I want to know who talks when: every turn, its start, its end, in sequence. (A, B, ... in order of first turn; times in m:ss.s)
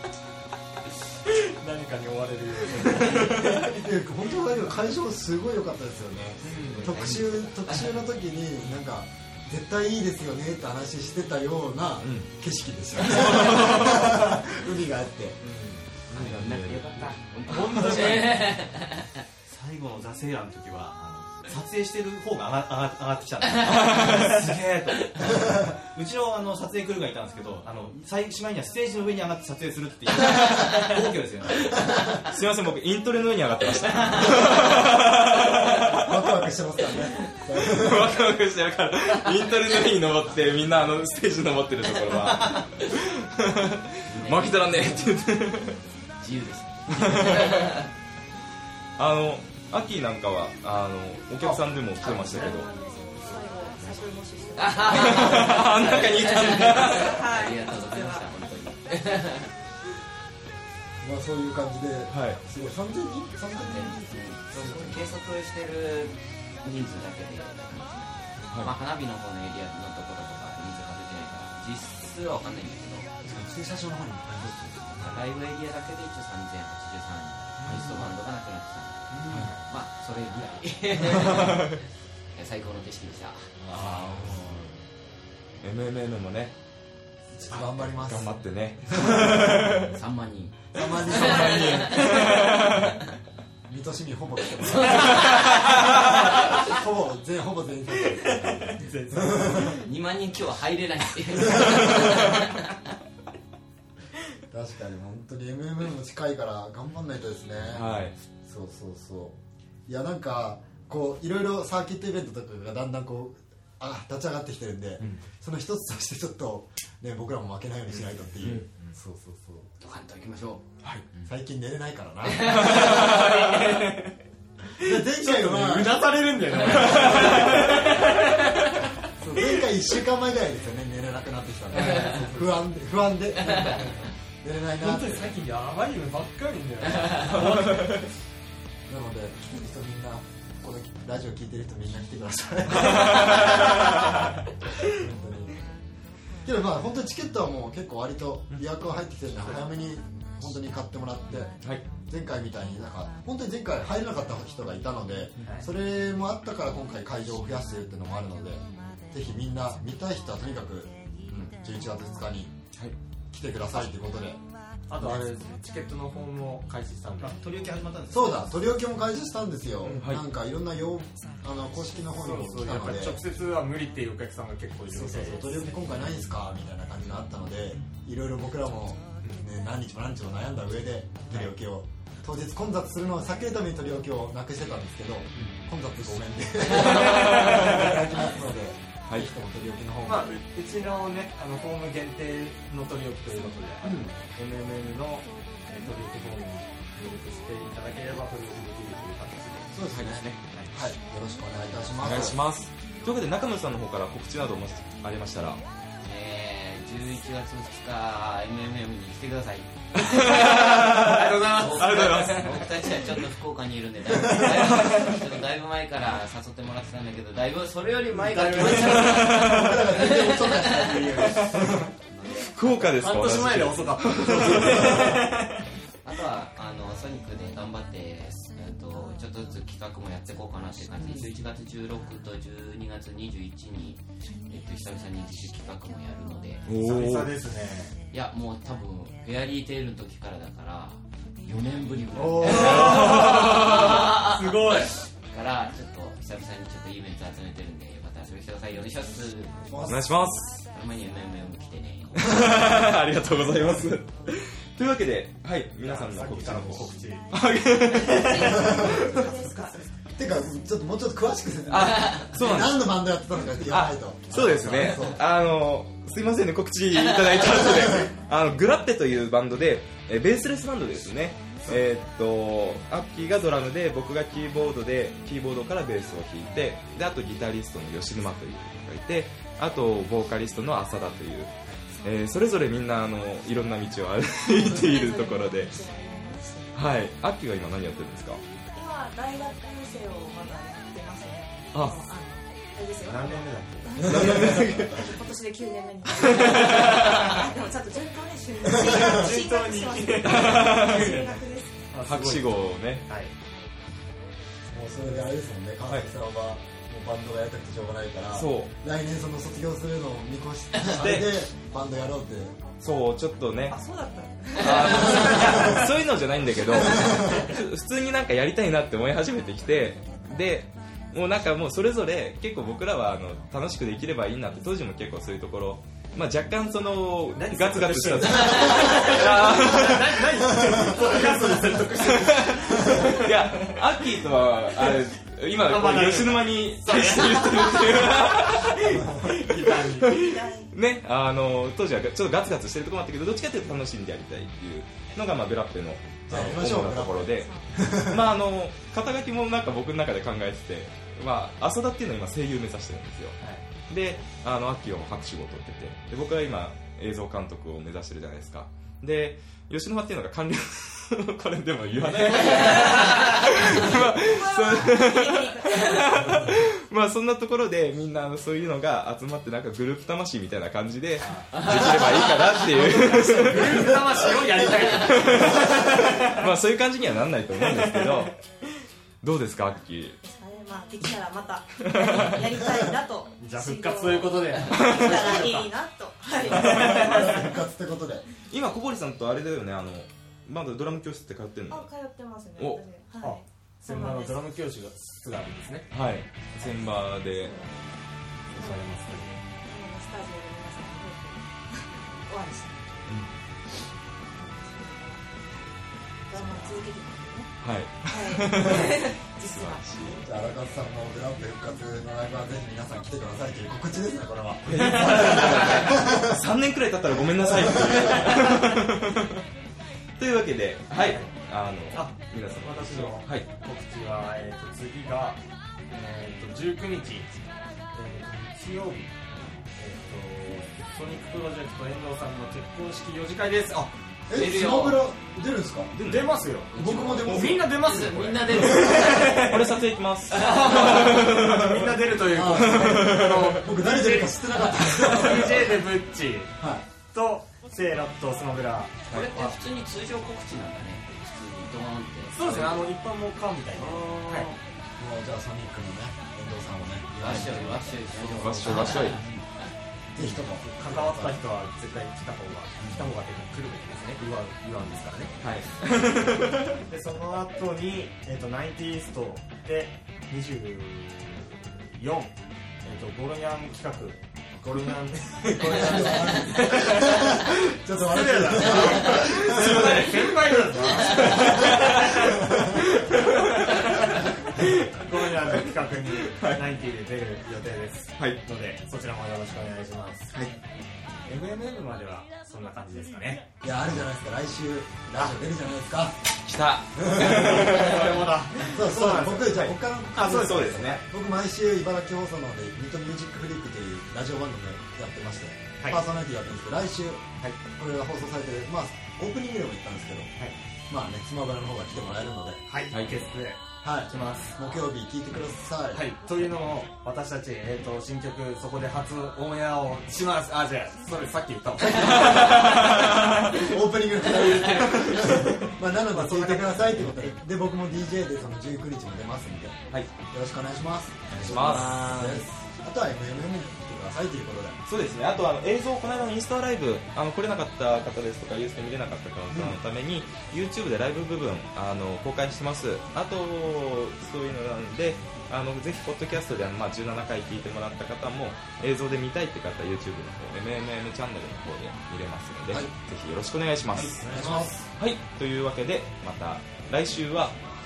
0:01.3-0:03.9 A
0:03.6-0:15.4 B
0:06.4-0:07.1 A
0:06.6-0:07.9 C
0:07.0-0:07.2 D
0:12.0-0:12.3 D
0:13.0-0:14.3 D
0:15.4-0:15.8 A
0:16.1-0:18.2 D
0:16.1-0:19.2 C
0:17.7-0:18.3 E
0:17.9-0:18.2 A
0:19.5-0:31.7 E
0:23.6-0:24.5 D
0:25.2-0:25.7 B
0:31.9-0:32.2 B
0:32.3-0:36.3 D
0:33.8-0:34.6 C
0:35.9-0:38.2 B
0:37.6-0:45.8 D
0:44.1-0:45.1 C
0:46.2-0:47.9 C
0:46.9-0:47.8 D
0:49.0-0:52.7 D
0:51.4-0:52.6 A
0:52.2-0:58.3 F
0:53.8-0:54.0 C
0:54.6-0:59.5 C
0:54.8-0:57.2 D
1:01.0-1:05.2 B
1:02.1-1:02.4 D
1:03.5-1:13.1 C
1:13.2-1:15.2 B
1:14.4-1:21.8 C
1:17.6-1:18.1 B
1:19.1-1:19.6 B
1:21.3-1:21.7 D
1:22.3-1:24.3 C
1:23.6-1:24.8 B
1:25.6-1:26.5 D
1:27.3-1:28.4 B
1:27.4-1:27.7 C
1:27.8-1:30.0 D
1:28.9-1:29.8 B
1:29.8-1:32.8 C
1:30.7-1:32.4 B
1:31.0-1:33.0 D
1:33.7-1:39.8 B
1:34.5-1:36.2 C
1:35.1-1:36.1 D
1:38.1-1:39.9 A
1:39.8-1:42.7 C
1:41.5-1:42.3 B
1:44.5-1:59.7 B
1:47.7-1:48.2 D
1:57.9-1:58.3 A
1:58.4-1:58.7 D
1:59.8-2:01.3 C
2:01.2-2:03.2 B
2:02.2-2:04.1 C
2:02.4-2:03.8 D
2:04.8-2:07.5 B
2:04.8-2:08.2 A
2:07.1-2:07.7 D
2:08.6-2:08.8 C
2:09.2-2:15.3 B
2:11.7-2:12.5 A
2:11.7-2:12.2 C
2:13.4-2:14.0 C
2:13.5-2:14.1 A
2:14.8-2:18.0 A
2:17.0-2:17.6 C
2:17.2-2:18.1 D
2:18.9-2:24.1 B
2:22.7-2:24.2 D
2:24.8-2:25.6 B
2:26.4-2:42.5 B
2:35.4-2:35.7 A
2:43.3-2:44.4 B
2:44.9-2:47.4 A
2:44.9-2:45.4 B
2:47.2-2:48.5 E
2:48.1-2:53.2 B
2:49.8-2:50.2 D
2:52.2-2:55.6 A
2:54.9-3:10.4 B
3:05.4-3:05.7 A
3:06.7-3:08.0 D
3:06.8-3:07.3 A
3:10.0-3:19.8 A
3:13.8-3:14.2 B
3:19.7-3:22.4 B
3:19.8-3:20.4 D
3:22.0-3:25.6 D
3:26.0-3:41.4 C
3:29.9-3:33.0 D
3:34.4-3:35.2 D
3:38.1-3:39.8 A
3:38.6-3:40.2 D
3:39.3-3:41.9 B
3:41.2-3:41.7 D
3:42.0-3:43.0 C
3:42.5-3:45.4 D
3:42.8-3:45.3 A
3:44.5-3:45.3 B
3:46.0-3:56.7 C
3:56.7-3:57.4 D
3:56.7-3:58.0 A
3:58.1-4:09.9 C
4:02.2-4:05.0 A
4:02.5-4:04.2 D
4:09.6-4:10.1 B
4:09.8-4:10.6 D
4:10.7-4:13.0 C
4:12.2-4:19.3 D
4:15.8-4:17.3 A
4:17.9-4:19.9 F
4:18.6-4:19.0 B
4:20.2-4:25.2 B
4:21.7-4:23.0 D
4:23.7-4:45.8 D
4:24.4-4:25.2 A
4:27.7-4:28.0 B
4:42.0-4:42.3 F
4:44.5-4:46.8 F
4:46.7-4:48.4 D
4:48.7-5:02.0 F
4:51.7-4:52.0 D
4:53.0-4:54.6 A
4:54.0-4:55.1 D
4:56.2-4:57.3 D
4:58.6-4:59.3 B
4:58.7-5:01.4 A
5:00.2-5:01.3 D
5:01.9-5:03.3 A
5:02.0-5:03.1 D
5:04.7-5:12.6 B
5:08.4-5:08.7 D
5:10.9-5:11.4 D
5:12.8-5:13.8 D
5:13.7-5:15.8 F
5:14.6-5:31.4 D
5:15.1-5:15.8 B
5:16.7-5:17.5 B
5:27.4-5:33.8 A
5:28.7-5:29.1 C
5:30.5-5:31.7 B
5:32.0-5:53.4 D
5:32.8-5:33.0 B
5:35.6-5:40.2 A
5:38.8-5:39.4 B
5:40.1-5:40.7 F
5:46.3-5:48.3 B
5:47.4-5:47.8 F
5:53.4-5:53.7 A
5:53.9-6:18.4 D
6:02.0-6:03.9 A
6:02.4-6:03.4 C
6:03.9-6:06.1 F
6:11.2-6:16.5 A
6:11.5-6:13.6 C
6:17.9-6:18.3 A
6:19.2-6:20.2 D
6:20.2-6:27.1 F
6:21.8-6:22.6 D
6:23.4-6:25.7 A
6:24.7-6:25.3 D
6:26.4-6:27.6 A
6:26.5-6:28.3 B
6:26.7-6:27.0 D
6:28.5-6:31.9 D
6:31.7-6:34.5 F
6:32.6-6:32.8 D
6:33.2-6:35.9 A
6:35.9-6:37.5 D
6:37.2-6:43.2 F
6:38.5-6:39.4 A
6:44.3-6:45.7 F
6:46.3-6:50.3 F
6:47.6-6:50.2 D
6:50.2-6:56.4 B
6:54.7-6:59.4 D
6:54.7-6:55.9 A
6:57.4-6:58.4 B
7:00.2-7:03.5 D
7:01.0-7:01.3 A
7:01.9-7:07.3 A
7:07.9-7:14.0 A
7:14.3-7:15.9 B
7:14.3-7:15.0 C
7:15.9-7:16.4 D
7:16.0-7:19.8 A
7:16.7-7:19.6 C
7:16.8-7:17.6 B
7:19.2-7:23.6 D
7:20.3-7:21.4 C
7:20.3-7:26.6 A
7:22.3-7:25.9 B
7:26.6-7:26.9 B
7:27.1-7:29.6 A
7:29.1-7:32.9 C
7:32.3-7:34.5 A
7:33.7-7:34.6 C
7:35.0-7:39.3 B
7:37.2-7:39.7 C
7:38.4-7:39.2 D
7:40.1-7:41.4 B
7:40.2-7:45.4 A
7:42.8-7:43.1 B
7:45.4-7:46.8 D
7:46.9-7:57.3 A
7:55.6-8:00.1 B
7:58.0-8:02.4 A
7:59.0-8:06.6 D
8:01.2-8:02.8 B
8:03.1-8:10.3 A
8:11.3-8:13.4 A
8:13.6-8:16.2 B
8:16.4-8:18.3 D
8:17.0-8:17.9 B
8:17.1-8:21.0 A
8:18.6-8:30.3 B
8:20.1-8:21.0 D
8:30.9-8:32.6 B
8:32.7-8:34.6 A
8:32.9-8:33.2 D
8:33.8-8:36.1 B
8:35.9-8:43.3 A
8:42.3-8:43.4 D
8:43.5-8:54.8 B
8:46.1-8:46.9 A
8:51.3-8:52.4 C
8:51.3-8:52.2 D
8:54.9-9:14.3 D
8:59.5-8:59.8 B
9:13.9-9:14.9 B
9:14.3-9:14.6 A
9:15.0-9:17.6 D